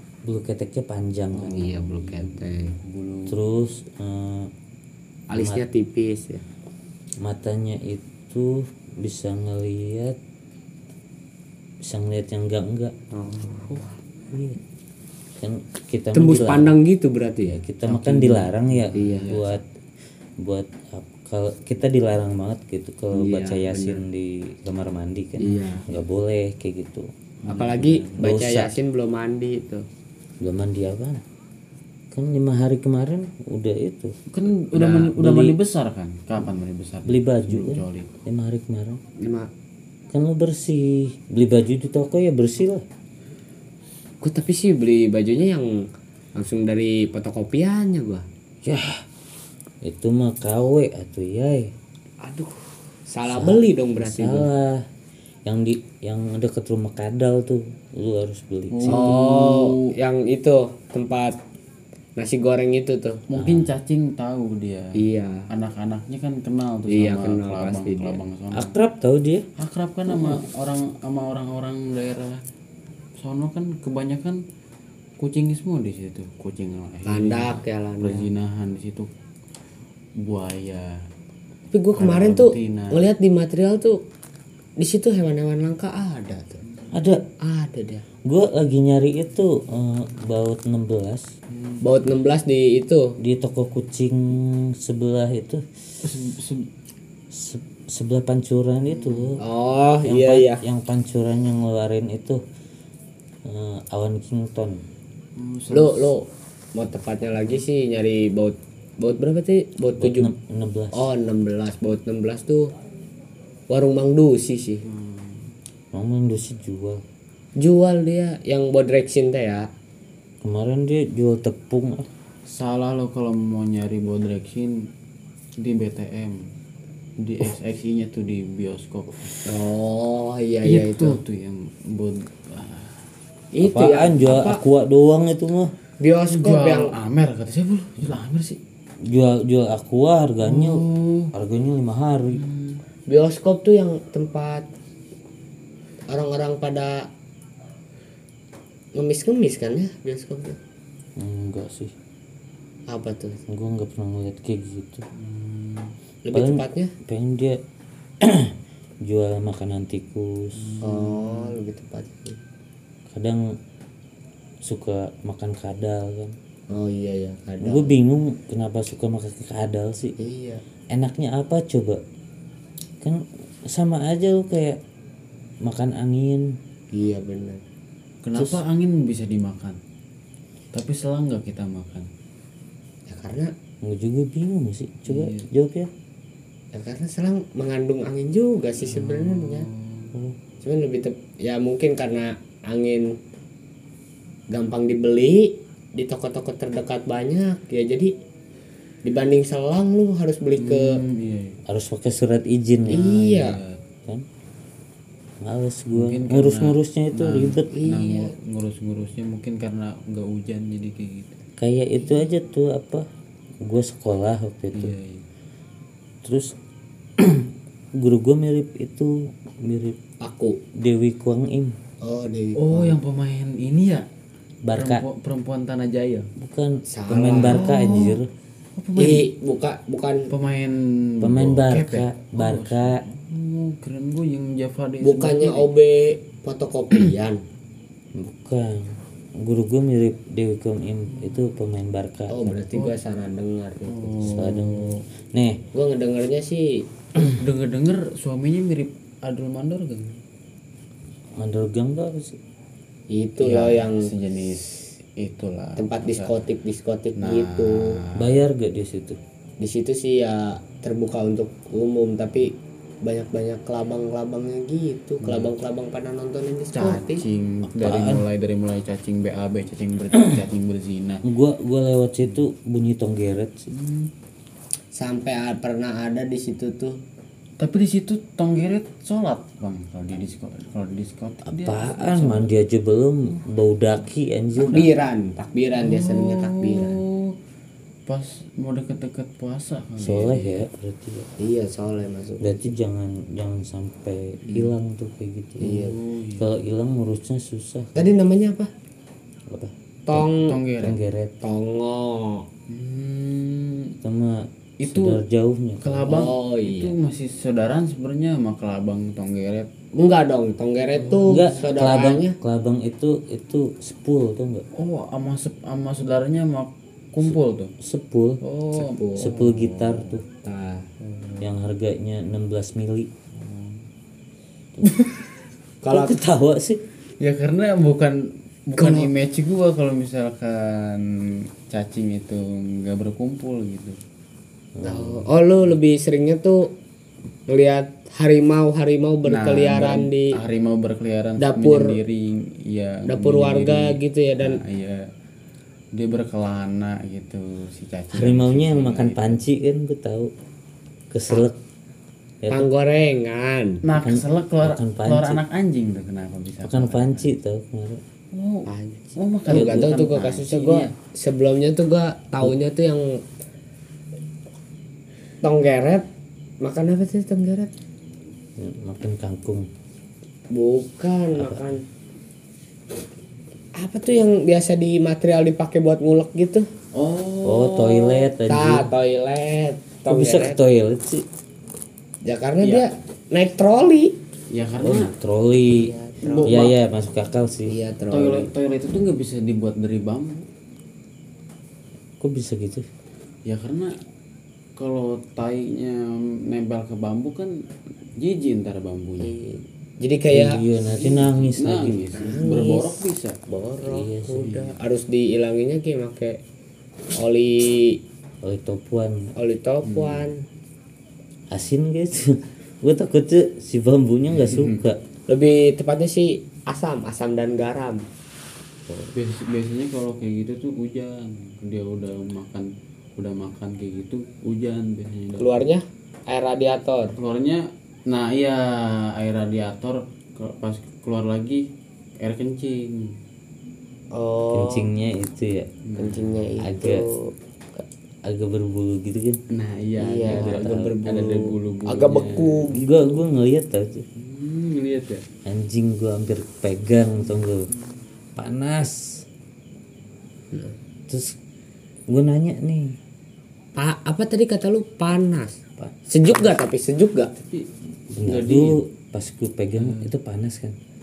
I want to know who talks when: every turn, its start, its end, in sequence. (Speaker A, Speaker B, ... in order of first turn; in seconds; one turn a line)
Speaker A: 0.2-1.7
Speaker B: 1.4-2.8
Speaker C: 1.4-3.4
Speaker A: 3.3-4.5
Speaker B: 5.3-6.4
Speaker A: 5.3-5.6
Speaker A: 7.2-10.2
Speaker A: 11.8-12.9
Speaker B: 13.1-13.9
Speaker A: 14.3-14.6
Speaker A: 15.4-16.8
Speaker B: 16.1-19.6
Speaker A: 17.5-19.6
Speaker C: 18.7-19.2
Speaker A: 20.4-27.1
Speaker B: 23.1-24.0
Speaker B: 25.4-25.9
Speaker C: 27.4-28.2
Speaker B: 27.5-29.9
Speaker A: 28.2-28.8
Speaker A: 30.4-31.2
Speaker A: 32.1-34.2
Speaker C: 34.3-38.2
Speaker B: 34.7-35.1
Speaker A: 35.1-35.6
Speaker A: 37.1-39.0
Speaker B: 39.2-39.5
Speaker A: 40.1-42.9
Speaker B: 44.2-48.3
Speaker A: 48.6-49.0
Speaker A: 49.8-51.7
Speaker B: 52.2-54.5
Speaker A: 53.3-54.9
Speaker A: 55.5-59.1
Speaker C: 58.7-59.9
Speaker B: 58.9-61.4
Speaker B: 62.2-63.2
Speaker C: 63.3-65.0
Speaker A: 63.4-63.7
Speaker B: 65.0-65.5
Speaker C: 65.5-68.8
Speaker B: 66.9-68.2
Speaker A: 68.5-69.5
Speaker C: 69.6-72.4
Speaker C: 73.2-74.4
Speaker C: 75.2-79.1
Speaker B: 77.1-78.3
Speaker C: 80.2-81.0
Speaker B: 81.7-84.0
Speaker C: 82.0-83.0
Speaker B: 84.8-86.6
Speaker A: 86.9-87.2
Speaker B: 87.4-88.0
Speaker A: 88.2-91.3
Speaker C: 91.5-91.8
Speaker B: 91.8-93.2
Speaker A: 93.2-95.7
Speaker C: 96.0-96.7
Speaker A: 97.3-99.4
Speaker C: 98.9-99.4
Speaker B: 99.4-100.6
Speaker A: 100.0-102.4
Speaker A: 103.5-104.8
Speaker C: 105.4-106.1
Speaker B: 105.7-110.3
Speaker A: 110.0-111.0
Speaker B: 110.9-112.7
Speaker B: 113.7-114.8
Speaker C: 114.8-115.5
Speaker A: 115.9-117.0
Speaker B: 117.6-119.7
Speaker A: 120.4-122.1
Speaker C: 122.5-124.9
Speaker C: 125.6-126.4
Speaker C: 127.2-129.5
Speaker B: 129.4-131.2
Speaker C: 130.6-133.0
Speaker B: 133.5-134.6
Speaker A: 133.6-135.7
Speaker B: 136.0-136.9
Speaker C: 136.3-138.6
Speaker A: 139.0-142.4
Speaker C: 140.4-141.3
Speaker C: 142.3-142.8
Speaker B: 143.1-144.7
Speaker B: 146.1-147.1
Speaker B: 148.9-150.6
Speaker A: 151.2-151.9
Speaker B: 152.9-153.4
Speaker A: 153.5-155.1
Speaker C: 155.2-155.9
Speaker B: 156.2-156.9
Speaker A: 156.3-157.6
Speaker A: 158.2-158.5
Speaker A: 159.1-160.7
Speaker C: 160.6-161.6
Speaker B: 160.8-162.4
Speaker A: 163.1-163.5
Speaker A: 164.6-166.4
Speaker B: 166.7-167.9
Speaker A: 167.6-170.2
Speaker B: 170.2-170.6
Speaker A: 170.9-172.0
Speaker A: 173.0-174.8
Speaker A: 175.6-176.6
Speaker B: 176.9-177.6
Speaker C: 178.2-179.8
Speaker C: 180.7-182.1
Speaker B: 183.1-183.5
Speaker A: 183.8-185.9
Speaker C: 185.1-185.5
Speaker B: 186.7-189.7
Speaker C: 188.8-190.1
Speaker B: 190.6-193.2
Speaker B: 194.5-198.1
Speaker B: 199.0-201.0
Speaker C: 200.6-201.6
Speaker A: 201.7-203.1
Speaker B: 202.9-203.6
Speaker C: 202.9-203.8
Speaker A: 205.4-207.7
Speaker C: 205.9-211.4
Speaker B: 207.7-208.3
Speaker A: 211.6-213.1
Speaker A: 213.6-214.9
Speaker C: 214.7-215.2
Speaker A: 216.2-216.5
Speaker A: 217.2-217.4
Speaker A: 218.0-220.0
Speaker B: 220.2-220.6
Speaker A: 220.8-221.8
Speaker B: 222.0-223.0
Speaker C: 222.6-224.1
Speaker A: 224.6-225.1
Speaker C: 224.7-226.3
Speaker A: 226.4-228.3
Speaker B: 226.9-227.7
Speaker C: 227.4-228.2
Speaker C: 228.8-229.3
Speaker B: 229.0-230.3
Speaker C: 230.3-235.7
Speaker A: 231.2-233.0
Speaker B: 235.0-237.4
Speaker A: 238.2-242.6
Speaker C: 241.1-241.5
Speaker B: 242.3-244.2
Speaker C: 243.8-245.1
Speaker A: 244.2-245.6
Speaker B: 245.7-246.8
Speaker C: 247.3-250.2
Speaker A: 251.3-252.4
Speaker B: 253.1-254.1
Speaker C: 253.4-256.3
Speaker B: 255.8-258.0
Speaker C: 257.2-258.4
Speaker A: 258.1-259.2
Speaker B: 259.6-267.2
Speaker C: 265.2-265.5
Speaker C: 266.7-271.2
Speaker A: 267.8-268.2
Speaker A: 271.2-273.7
Speaker C: 273.7-274.1
Speaker B: 274.9-277.0
Speaker C: 277.6-282.5
Speaker A: 281.5-284.9
Speaker B: 284.6-287.0
Speaker C: 285.8-287.4
Speaker C: 288.1-290.7
Speaker A: 290.0-291.3
Speaker B: 291.4-292.6
Speaker A: 292.4-298.1
Speaker B: 295.6-296.0
Speaker C: 295.7-296.5
Speaker B: 297.9-298.7
Speaker B: 300.1-300.6
Speaker C: 300.1-301.0
Speaker A: 300.8-301.4
Speaker B: 301.4-302.4
Speaker C: 302.7-304.0
Speaker A: 304.0-306.1
Speaker C: 304.8-305.2
Speaker C: 305.8-309.7
Speaker B: 306.1-306.9
Speaker B: 309.9-312.4
Speaker C: 311.0-311.5
Speaker A: 311.3-314.6
Speaker C: 314.8-317.7
Speaker A: 317.2-318.4
Speaker C: 318.4-320.1
Speaker B: 318.8-319.4
Speaker A: 319.2-320.2
Speaker B: 320.4-320.9
Speaker C: 321.0-321.5
Speaker A: 321.4-323.1
Speaker C: 323.3-323.8
Speaker C: 324.8-325.3
Speaker B: 325.8-326.2
Speaker A: 325.9-326.8
Speaker C: 327.2-334.0
Speaker B: 328.8-329.1
Speaker A: 334.8-335.3
Speaker B: 334.8-336.7
Speaker B: 337.5-340.4
Speaker C: 339.2-345.1
Speaker B: 341.4-342.0
Speaker B: 343.1-344.6
Speaker C: 345.9-349.4
Speaker A: 348.1-350.3
Speaker A: 351.1-351.6
Speaker A: 352.4-352.7
Speaker B: 352.5-353.8
Speaker C: 353.8-357.3
Speaker A: 353.9-355.4
Speaker A: 356.6-358.0
Speaker C: 358.3-360.9
Speaker B: 358.7-363.2
Speaker A: 359.5-359.9
Speaker B: 365.4-366.1
Speaker B: 366.6-367.7
Speaker A: 368.6-369.7
Speaker B: 370.5-371.8
Speaker A: 371.3-371.7
Speaker B: 373.8-376.7
Speaker C: 376.9-378.3
Speaker A: 377.4-378.9
Speaker B: 378.5-380.6
Speaker A: 380.1-381.3
Speaker B: 382.2-384.2
Speaker C: 382.6-382.9
Speaker C: 384.5-385.1
Speaker A: 384.8-385.9
Speaker B: 385.7-386.6
Speaker C: 386.2-386.8
Speaker A: 386.4-387.7
Speaker B: 387.7-388.5
Speaker C: 388.1-390.5
Speaker A: 392.2-392.9
Speaker C: 393.5-394.0
Speaker C: 394.8-397.6
Speaker C: 398.2-399.4
Speaker B: 399.2-400.6
Speaker A: 400.3-402.0
Speaker C: 400.8-403.4
Speaker B: 402.1-406.4
Speaker A: 403.8-404.5
Speaker C: 404.4-404.8
Speaker B: 407.1-408.0
Speaker A: 408.4-409.3
Speaker B: 409.4-410.4
Speaker C: 409.8-410.3
Speaker A: 411.5-415.0
Speaker C: 414.3-414.8
Speaker B: 415.3-418.1
Speaker A: 418.9-419.1
Speaker C: 419.1-425.7
Speaker B: 425.4-427.1
Speaker C: 427.1-431.7
Speaker C: 432.2-433.2
Speaker B: 434.1-434.9
Speaker A: 434.5-435.8
Speaker C: 435.9-436.4
Speaker B: 436.0-437.8
Speaker A: 436.6-437.0
Speaker A: 438.2-439.4
Speaker C: 439.5-442.9
Speaker B: 440.0-442.8
Speaker A: 440.3-441.0
Speaker A: 442.7-444.1
Speaker C: 444.2-445.2
Speaker A: 445.4-447.7
Speaker C: 447.2-447.9
Speaker A: 448.4-449.2
Speaker A: 451.1-451.4
Speaker A: 452.1-452.9
Speaker B: 453.8-457.3
Speaker A: 455.8-456.4
Speaker C: 457.4-457.7
Speaker A: 458.1-460.8
Speaker C: 458.2-458.8
Speaker C: 459.8-460.1